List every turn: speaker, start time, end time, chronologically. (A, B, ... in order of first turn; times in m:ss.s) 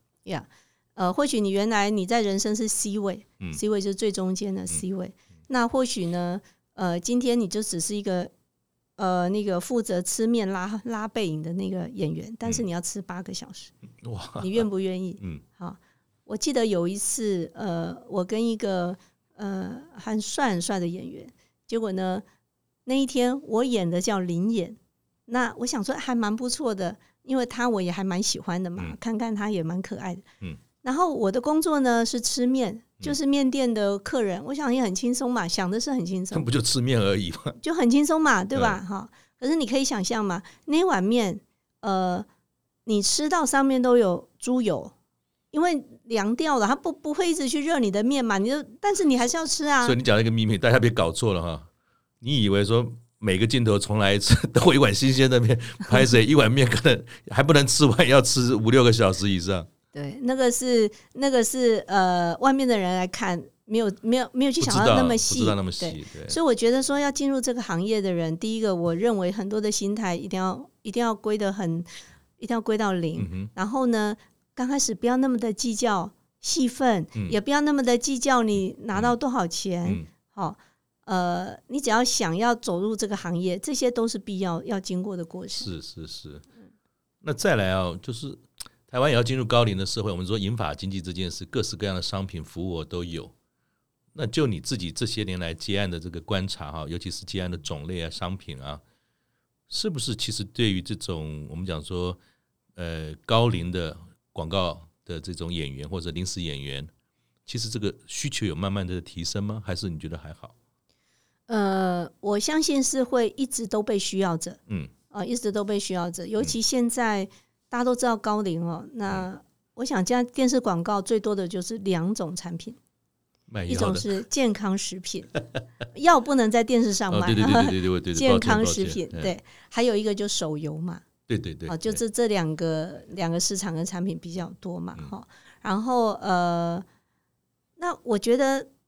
0:00.2-0:08.3 A
0:09.0-0:13.7 A
0:14.0-0:14.7 B
0:14.4-0:22.2 A
0:22.8-0:30.2 A
0:30.8-0:36.5 A
0:36.3-0:37.6 B
0:37.6-0:42.2 A
0:42.8-0:44.9 A
0:45.5-0:50.0 A
0:49.8-0:51.7 B
0:52.2-0:59.7 B
0:59.9-1:11.9 A
1:04.6-1:06.4 B
1:12.4-1:25.7 A
1:13.2-1:13.5 B
1:25.6-1:26.4 B
1:27.2-1:33.3 B
1:34.1-1:38.8 B
1:39.7-1:42.2 B
1:42.8-1:46.9 B
1:47.4-1:50.5 B
1:51.5-1:54.6 A
1:55.1-2:02.8 A
2:03.5-2:04.2 B
2:03.7-2:05.4 A
2:05.9-2:11.0 A
2:07.1-2:09.3 B
2:11.3-2:12.0 B
2:11.7-2:16.8 A
2:17.8-2:18.7 A